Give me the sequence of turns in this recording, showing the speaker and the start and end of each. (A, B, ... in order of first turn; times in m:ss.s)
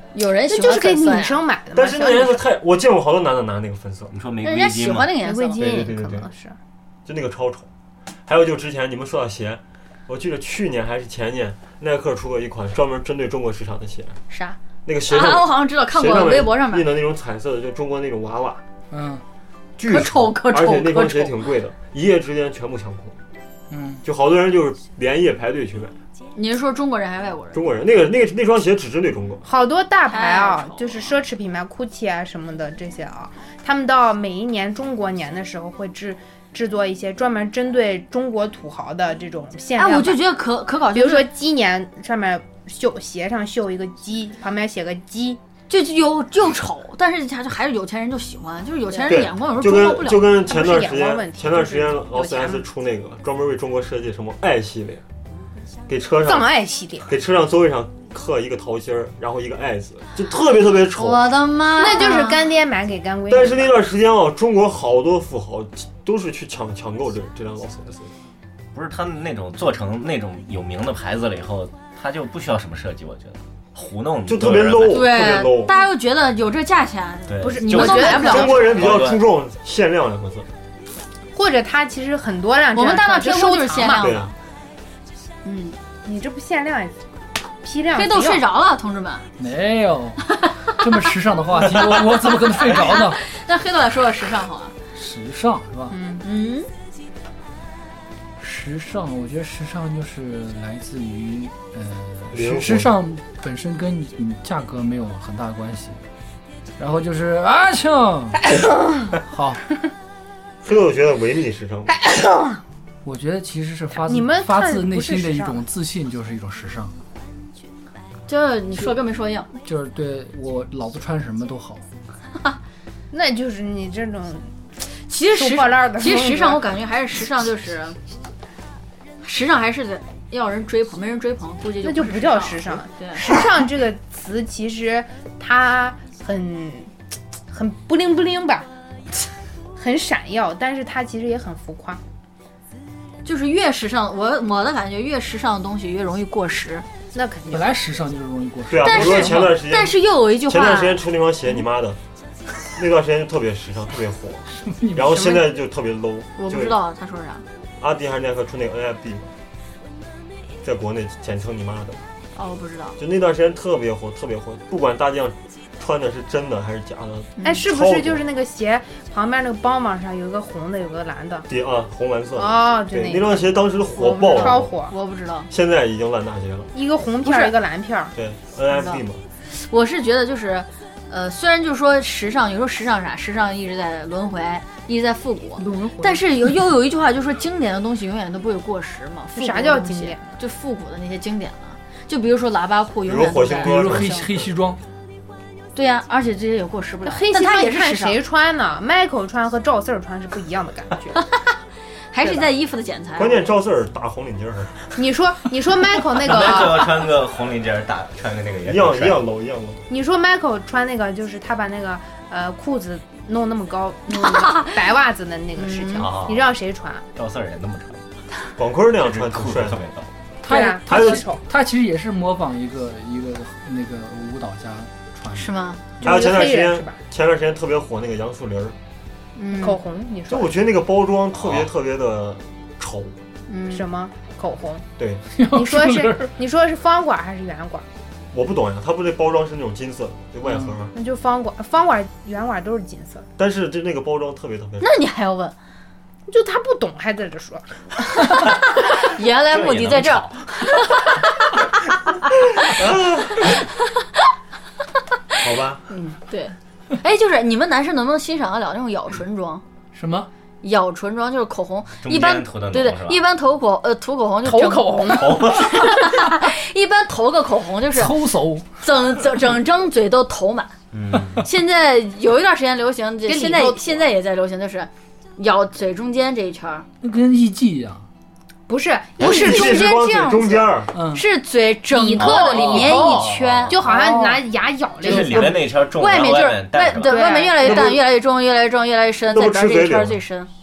0:00.1-0:01.4 A
0:00.5-0:02.4 B
0:01.7-0:04.1 C
0:04.1-0:05.2 D
0:04.4-0:05.6 A
0:05.2-0:06.6 B
0:05.6-0:06.3 C
0:07.1-0:07.7 C
0:08.3-0:14.2 C
0:14.3-0:14.6 A
0:14.8-0:18.6 C
0:15.1-0:16.9 A
0:18.9-0:19.2 E
0:19.8-0:23.2 C
0:19.9-0:21.4 A
0:23.7-0:24.0 E
0:24.0-0:26.0 C
0:26.4-0:27.6 A
0:27.5-0:29.4 C
0:29.4-0:40.2 B
0:30.1-0:31.1 A
0:39.8-0:41.3 A
0:40.9-0:45.4 B
0:45.7-0:50.3 A
0:49.1-0:55.0 C
0:50.2-0:52.6 B
0:55.9-0:56.5 C
0:56.2-0:57.1 B
0:57.1-1:01.3 C
1:01.0-1:02.4 A
1:01.8-1:03.8 B
1:03.3-1:08.1 C
1:08.7-1:15.1 D
1:14.3-1:15.8 C
1:14.9-1:18.8 A
1:17.3-1:19.2 D
1:17.4-1:18.8 B
1:18.2-1:20.5 C
1:21.4-1:24.2 B
1:22.8-1:24.3 A
1:23.9-1:24.3 C
1:25.4-1:25.8 A
1:26.0-1:27.0 B
1:27.6-1:28.4 B
1:28.0-1:29.3 A
1:29.4-1:30.2 E
1:30.8-1:33.2 E
1:31.7-1:32.6 D
1:32.6-1:34.7 A
1:35.0-1:36.0 E
1:35.9-1:36.2 B
1:36.2-1:36.7 A
1:38.4-1:46.0 E
1:42.3-1:43.0 C
1:46.8-1:48.4 E
1:48.6-1:49.0 B
1:49.2-1:49.6 E
1:50.6-1:51.9 C
1:52.0-1:52.6 B
1:53.0-1:56.9 E
1:53.9-1:55.6 B
1:58.3-1:59.5 A
1:59.6-2:01.9 E
2:03.1-2:04.5 B
2:05.1-2:08.0 A
2:05.2-2:06.6 B
2:09.2-2:13.3 A
2:11.8-2:16.9 B
2:17.5-2:18.7 B
2:19.8-2:22.0 B
2:23.2-2:26.9 A
2:27.1-2:27.8 B
2:27.5-2:29.6 E
2:28.7-2:32.0 C
2:28.8-2:31.0 A
2:32.8-2:36.8 C
2:34.6-2:35.5 E
2:36.4-2:37.4 A
2:37.8-2:39.3 C
2:40.6-2:42.0 C
2:42.4-2:43.0 A
2:43.0-2:48.2 C
2:47.4-2:51.5 B
2:51.5-2:54.7 C
2:52.4-2:53.6 B
2:53.9-2:55.5 A
2:54.2-2:54.9 B
2:55.5-2:56.7 C
2:56.7-2:58.1 B
2:57.2-2:57.5 A
2:58.2-2:59.2 C
2:58.7-3:14.2 A
3:05.6-3:06.2 B
3:09.4-3:10.4 B
3:13.1-3:14.5 C
3:13.6-3:14.8 E
3:15.8-3:18.2 A
3:17.1-3:21.2 B
3:21.2-3:21.5 A
3:22.1-3:23.4 A
3:22.2-3:22.5 B
3:23.2-3:24.8 C
3:25.0-3:27.0 B
3:26.2-3:29.2 D
3:28.6-3:29.8 C
3:29.9-3:37.0 B
3:34.1-3:34.8 A
3:35.6-3:36.1 A
3:36.0-3:36.5 D
3:37.2-3:38.0 D
3:38.6-3:39.8 C
3:39.0-3:40.1 D
3:40.4-3:45.6 E
3:40.5-3:41.4 B
3:40.9-3:41.2 C
3:45.3-3:45.8 A
3:46.0-3:47.0 B
3:46.0-3:48.8 C
3:49.4-3:49.8 A
3:49.6-3:50.6 B
3:50.3-3:53.2 C
3:53.5-3:53.8 A
3:53.7-3:54.9 B
3:55.0-3:55.2 C
3:55.3-3:56.3 E
3:55.4-3:57.8 B
3:58.3-4:00.9 C
4:00.9-4:03.3 B
4:03.4-4:04.9 C
4:04.8-4:05.6 A
4:06.3-4:08.2 B
4:08.3-4:11.5 A
4:09.4-4:10.5 D
4:12.6-4:13.6 C
4:15.4-4:15.8 C
4:15.9-4:19.6 A
4:19.9-4:20.3 E
4:20.6-4:30.7 A
4:22.0-4:23.2 D
4:24.4-4:25.6 B
4:25.0-4:26.1 D
4:27.9-4:28.7 E
4:30.9-4:31.5 D
4:31.4-4:36.9 A
4:33.3-4:34.0 B
4:37.0-4:38.1 E
4:38.7-4:39.8 B
4:39.2-4:44.4 A
4:39.2-4:40.9 C
4:40.9-4:41.2 E
4:41.9-4:45.7 B
4:42.2-4:44.0 D
4:45.0-4:47.4 D
4:45.1-4:50.5 A
4:47.0-4:48.0 B
4:47.6-4:48.0 C
4:49.3-4:50.2 C